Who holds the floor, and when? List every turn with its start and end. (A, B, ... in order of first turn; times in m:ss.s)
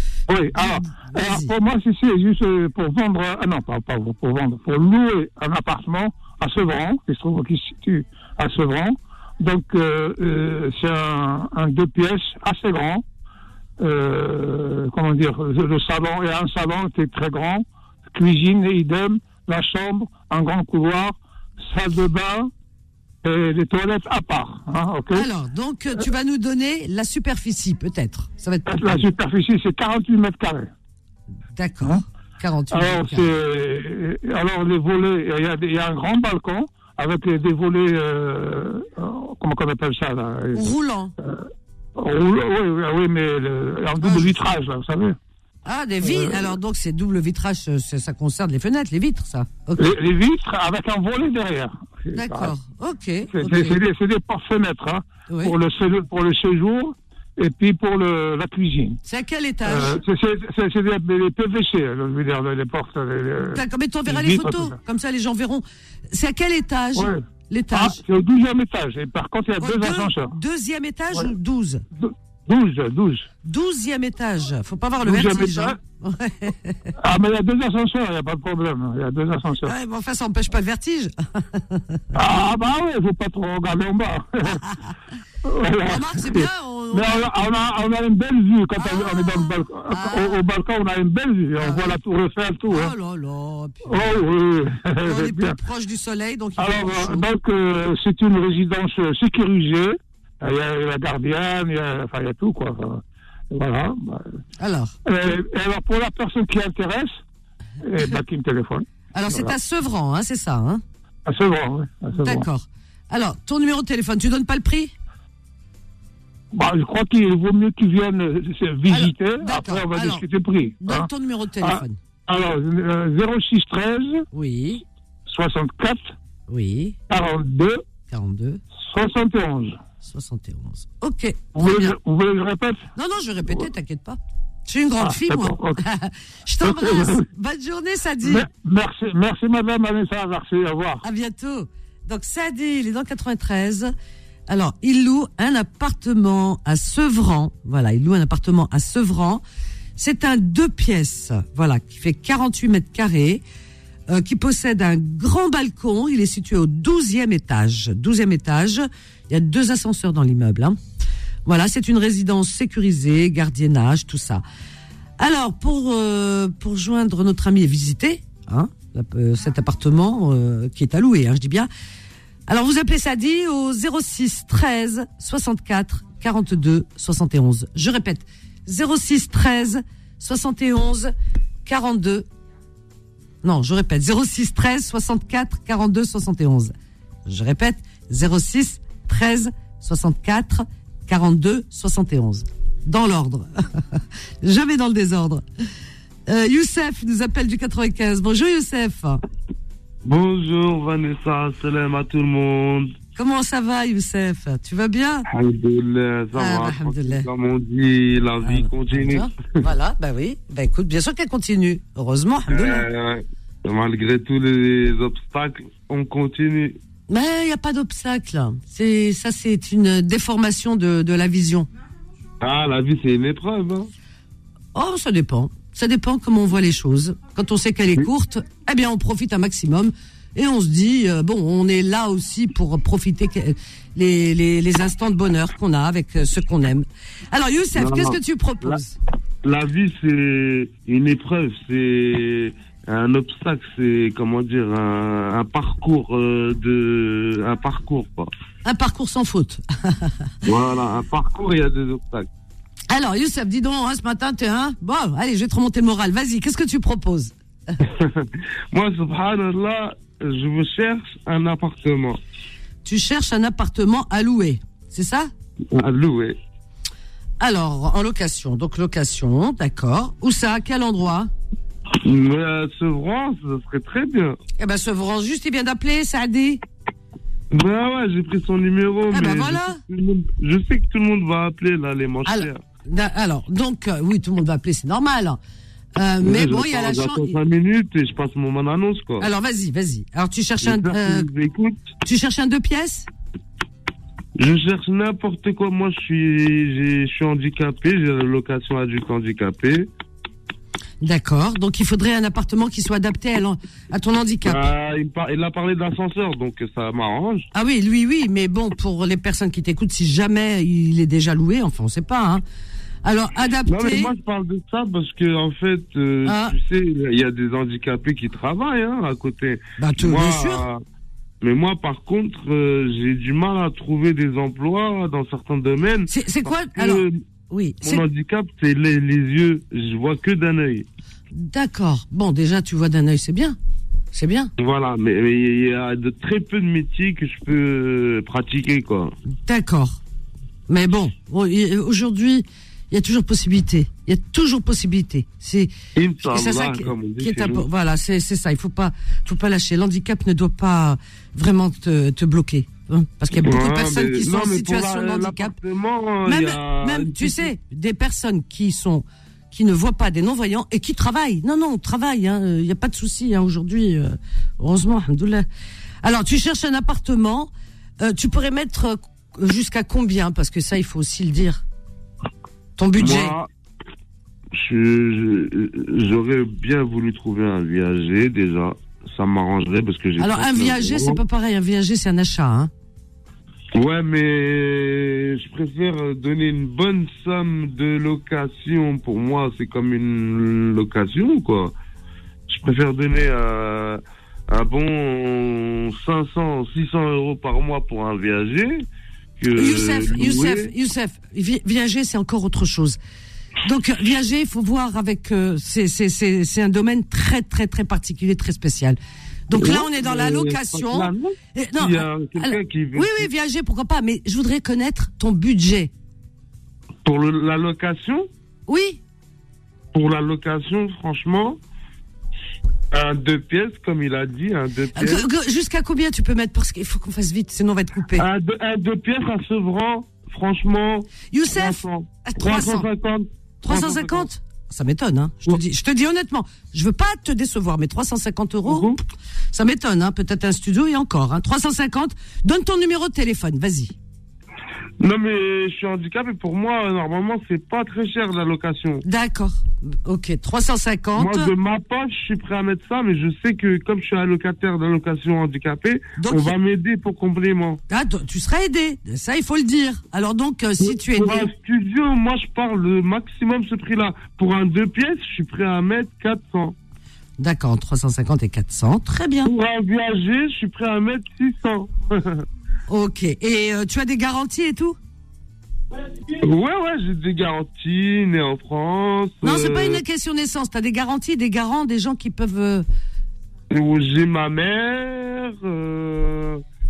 0:00.3-0:13.0 A
0:00.6-0:01.5 B
0:13.8-0:22.5 A
0:23.2-0:25.3 A
0:25.1-0:29.0 B
0:28.7-0:30.7 A
0:31.6-0:33.3 B
0:32.7-0:40.6 A
0:40.5-0:41.1 B
0:42.0-0:45.2 A
0:44.0-0:44.3 B
0:45.6-0:50.0 B
0:46.0-0:46.5 A
0:49.8-0:52.5 A
0:52.1-0:53.8 B
0:53.3-0:59.0 A
0:55.3-0:55.6 B
0:59.1-1:00.0 B
0:59.6-1:04.8 A
1:03.5-1:08.0 B
1:07.0-1:10.3 A
1:09.6-1:11.8 B
1:12.0-1:13.3 A
1:13.4-1:16.9 B
1:15.0-1:15.8 A
1:17.0-1:19.7 A
1:19.6-1:22.0 B
1:22.1-1:24.8 A
1:25.4-1:33.0 A
1:25.8-1:27.6 B
1:28.8-1:30.4 B
1:31.6-1:32.0 B
1:32.7-1:34.2 B
1:33.9-1:35.6 A
1:35.0-1:37.2 B
1:36.6-1:44.3 A
1:44.6-1:44.9 B
1:45.1-1:47.2 A
1:47.8-1:49.5 A
1:49.1-1:50.8 B
1:51.3-1:52.5 A
1:52.2-1:54.9 B
1:56.5-2:01.1 A
1:58.9-2:00.2 B
2:00.8-2:02.0 B
2:01.6-2:04.2 A
2:04.3-2:04.8 B
2:05.3-2:06.1 A
2:06.5-2:07.0 B
2:07.1-2:07.8 A
2:08.1-2:08.6 B
2:08.9-2:09.8 A
2:10.0-2:12.0 B
2:11.6-2:12.9 A
2:13.0-2:18.5 B
2:15.0-2:15.8 A
2:16.6-2:17.2 A
2:18.2-2:21.0 A
2:21.0-2:23.9 B
2:24.5-2:29.4 B
2:30.0-2:33.4 B
2:34.1-2:40.8 B
2:41.5-2:44.4 B
2:45.2-2:51.7 B
2:52.5-3:01.1 B
3:01.7-3:02.3 B
3:03.4-3:06.7 B
3:07.3-3:15.4 B
3:16.3-3:19.2 B
3:20.0-3:22.9 C
3:23.2-3:25.3 B
3:25.3-3:29.3 C
3:26.3-3:27.3 B
3:28.4-3:32.9 B
3:32.5-3:36.8 C
3:37.1-3:41.7 B
3:42.4-3:43.9 C
3:44.7-3:59.0 B
3:57.8-3:58.8 C
3:59.4-4:08.3 C
4:08.6-4:10.3 B
4:10.4-4:12.3 C
4:12.9-4:17.8 B
4:17.8-4:22.2 C
4:22.8-4:25.3 B
4:25.7-4:26.4 C
4:27.4-4:31.3 B
4:32.0-4:34.4 C
4:34.6-4:36.6 B
4:37.5-4:42.6 C
4:39.1-4:39.8 B
4:42.3-4:45.4 B
4:46.0-4:47.4 B
4:46.2-4:49.3 C
4:49.2-4:51.3 B
4:50.6-4:51.8 C
4:52.0-4:53.1 B
4:54.4-4:59.9 C
5:01.0-5:04.7 B
5:04.4-5:07.5 C
5:07.5-5:12.4 B
5:13.0-5:14.1 B
5:13.7-5:20.8 C
5:16.2-5:16.6 B
5:19.8-5:20.6 B
5:21.4-5:27.2 C
5:26.1-5:28.0 B
5:27.8-5:30.9 C
5:31.3-5:33.6 B
5:34.1-5:34.5 B
5:34.6-5:39.1 C
5:39.4-5:40.0 B
5:40.7-5:45.7 B
5:46.0-5:47.7 C
5:46.2-5:55.6 B
5:53.3-5:57.5 C
5:56.2-6:05.5 B
6:06.0-6:11.6 B
6:12.8-6:13.4 B
6:13.0-6:13.5 C
6:14.5-6:21.2 C
6:20.2-6:22.7 B
6:23.8-6:31.8 C
6:32.5-6:38.9 C
6:39.4-6:40.7 C
6:39.6-6:43.0 B
6:43.6-6:55.9 B
6:49.5-6:53.3 C
6:57.0-6:58.3 C
6:58.7-6:59.0 B
6:59.9-7:01.6 C
7:02.9-7:05.3 C
7:05.0-7:08.2 B
7:08.2-7:14.3 C
7:11.3-7:12.9 B
7:13.6-7:19.0 B
7:18.7-7:19.0 C
7:19.5-7:24.0 B
7:25.0-7:29.0 C
7:29.0-7:31.5 B
7:31.2-7:37.8 C
7:36.2-7:36.6 B
7:37.9-7:41.5 B
7:40.8-7:46.8 C
7:47.4-7:49.5 B
7:49.4-7:52.4 C
7:52.9-7:55.0 B
7:56.4-8:00.0 C
7:59.4-8:02.9 B
8:03.7-8:06.6 C